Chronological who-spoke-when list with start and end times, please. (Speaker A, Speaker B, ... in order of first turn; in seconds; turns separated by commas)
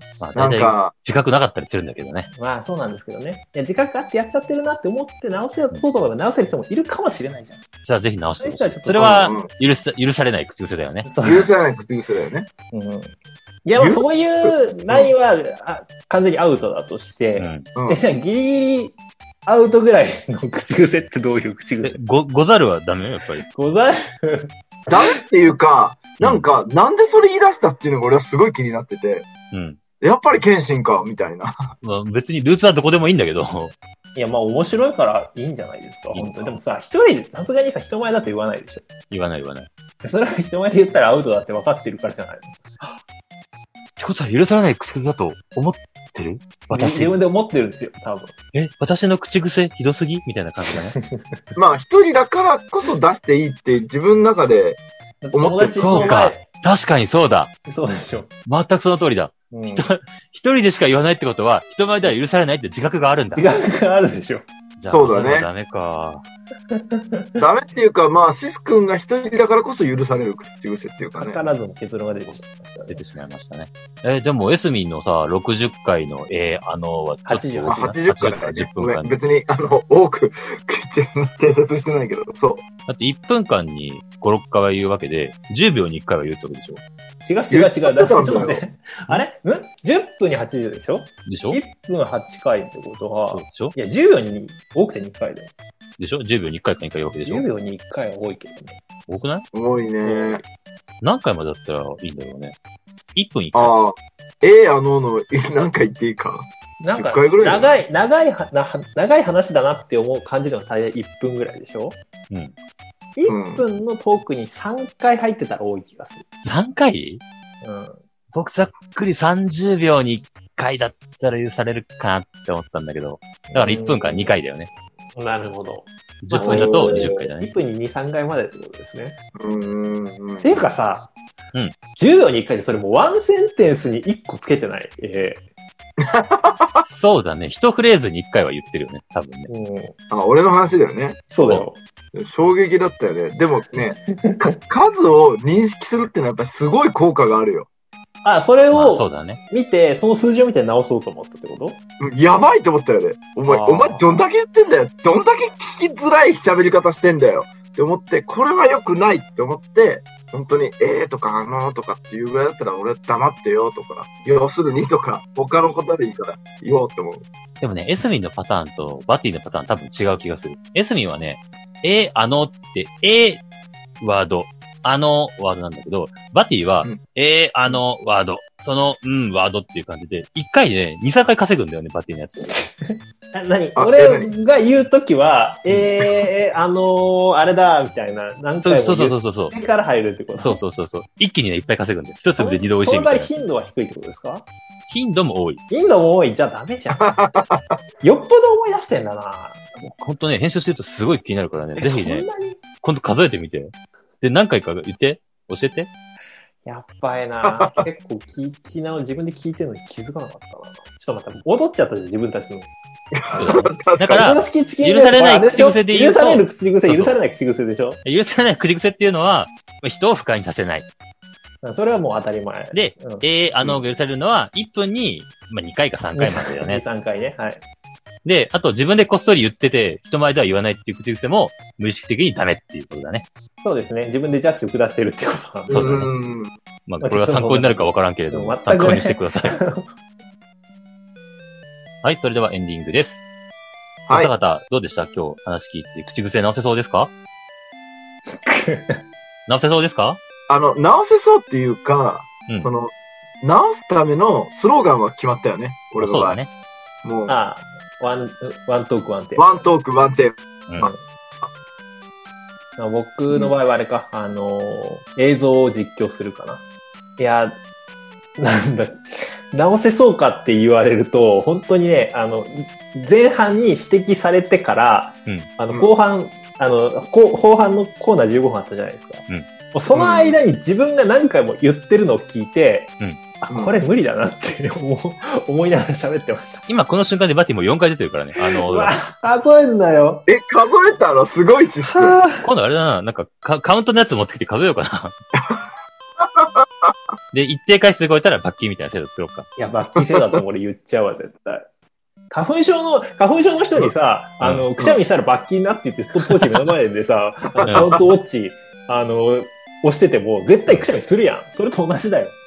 Speaker A: 0.2-2.3, Speaker B: 0.3-0.9, Speaker C: 2.3-7.6, Speaker A: 7.8-11.1, Speaker C: 8.4-9.3, Speaker B: 8.9-9.5, Speaker C: 11.1-11.5, Speaker B: 11.2-12.5, Speaker C: 12.7-22.0, Speaker B: 13.8-15.1, Speaker A: 17.4-17.6, Speaker B: 17.7-18.0, Speaker A: 21.8-23.4, Speaker C: 23.5-25.0, Speaker B: 24.9-29.3, Speaker A: 29.5-29.8, Speaker B: 30.0-31.7, Speaker A: 31.8-33.8, Speaker C: 34.1-38.9, Speaker A: 36.1-36.6, Speaker A: 39.1-39.7, Speaker C: 40.0-42.7, Speaker A: 44.0-47.2, Speaker C: 46.7-48.3, Speaker A: 48.5-51.0, Speaker C: 50.7-51.4, Speaker B: 51.5-54.8, Speaker C: 55.2-56.4, Speaker B: 55.3-56.2, Speaker A: 55.8-57.5, Speaker C: 57.6-58.3, Speaker A: 58.5-63.5, Speaker C: 59.5-59.9, Speaker C: 63.3-64.4, Speaker A: 64.8-66.2, Speaker B: 64.9-65.5, Speaker C: 66.7-67.4, Speaker B: 67.4-71.4, Speaker C: 71.1-73.0, Speaker A: 72.9-79.2, Speaker C: 77.2-78.0, Speaker B: 77.7-82.6, Speaker A: 82.9-86.8, Speaker C: 87.2-95.5, Speaker B: 87.5-88.6, Speaker A: 91.2-91.6, Speaker A: 93.3-93.7, Speaker A: 96.0-97.5, Speaker C: 97.2-98.8, Speaker A: 99.1-99.5, Speaker B: 99.5-100.4, Speaker C: 100.0-100.4, Speaker A: 101.0-102.5, Speaker A: 103.2-103.7, Speaker B: 103.5-107.7, Speaker C: 106.8-112.0, Speaker A: 112.3-112.5, Speaker C: 113.2-116.2, Speaker B: 113.3-113.6, Speaker A: 116.4-117.2, Speaker C: 117.6-118.0, Speaker A: 118.3-124.7, Speaker C: 123.5-124.3, Speaker C: 125.1-129.2, Speaker A: 126.2-127.5, Speaker B: 126.3-127.2, Speaker B: 129.3-130.7, Speaker C: 130.4-131.1, Speaker C: 132.0-135.4, Speaker B: 136.0-136.8, Speaker A: 136.8-139.5, Speaker C: 139.5-139.9, Speaker B: 140.1-141.2, Speaker C: 141.3-141.8, Speaker B: 142.1-147.7, Speaker C: 143.8-144.5, Speaker C: 148.2-151.8, Speaker A: 148.7-149.4, Speaker B: 152.0-167.2, Speaker A: 153.5-154.0, Speaker A: 167.6-173.4, Speaker A: 174.0-182.5, Speaker C: 182.5-190.6, Speaker B: 183.8-184.3, Speaker A: 188.6-189.5, Speaker A: 190.4-193.4, Speaker C: 192.3-194.4, Speaker A: 194.9-195.6, Speaker C: 195.7-197.1, Speaker B: 197.0-197.8, Speaker C: 198.0-199.6, Speaker A: 199.8-202.3, Speaker C: 201.8-202.6, Speaker A: 202.8-205.9, Speaker C: 206.6-212.7, Speaker B: 207.4-207.8, Speaker B: 213.1-214.2, Speaker A: 213.3-217.1, Speaker C: 214.2-218.0, Speaker A: 218.0-220.9, Speaker C: 221.6-223.2, Speaker A: 222.7-226.8, Speaker C: 226.2-227.6, Speaker A: 228.2-233.3, Speaker C: 233.6-236.0, Speaker B: 235.7-236.5, Speaker A: 235.7-236.1, Speaker A: 236.9-239.6, Speaker C: 237.0-239.9, Speaker A: 242.0-243.2, Speaker B: 244.1-244.3, Speaker A: 244.1-247.1, Speaker C: 248.3-249.0, Speaker A: 249.5-250.2, Speaker B: 250.5-256.4, Speaker A: 256.0-256.5, Speaker B: 257.0-257.4, Speaker C: 257.3-259.7, Speaker B: 259.4-261.5, Speaker C: 262.8-266.6, Speaker B: 263.3-263.6, Speaker C: 267.2-267.6, Speaker C: 268.4-286.6, Speaker B: 279.9-280.4, Speaker A: 286.7-289.0, Speaker C: 288.4-290.3, Speaker B: 290.3-292.2, Speaker C: 291.9-292.5, Speaker A: 292.4-295.1, Speaker B: 295.4-295.6, Speaker B: 296.2-296.9, Speaker A: 297.3-299.5, Speaker C: 299.6-301.7, Speaker B: 300.0-300.3, Speaker C: 302.3-312.4, Speaker A: 304.4-304.7, Speaker A: 307.6-307.9, Speaker B: 307.6-308.0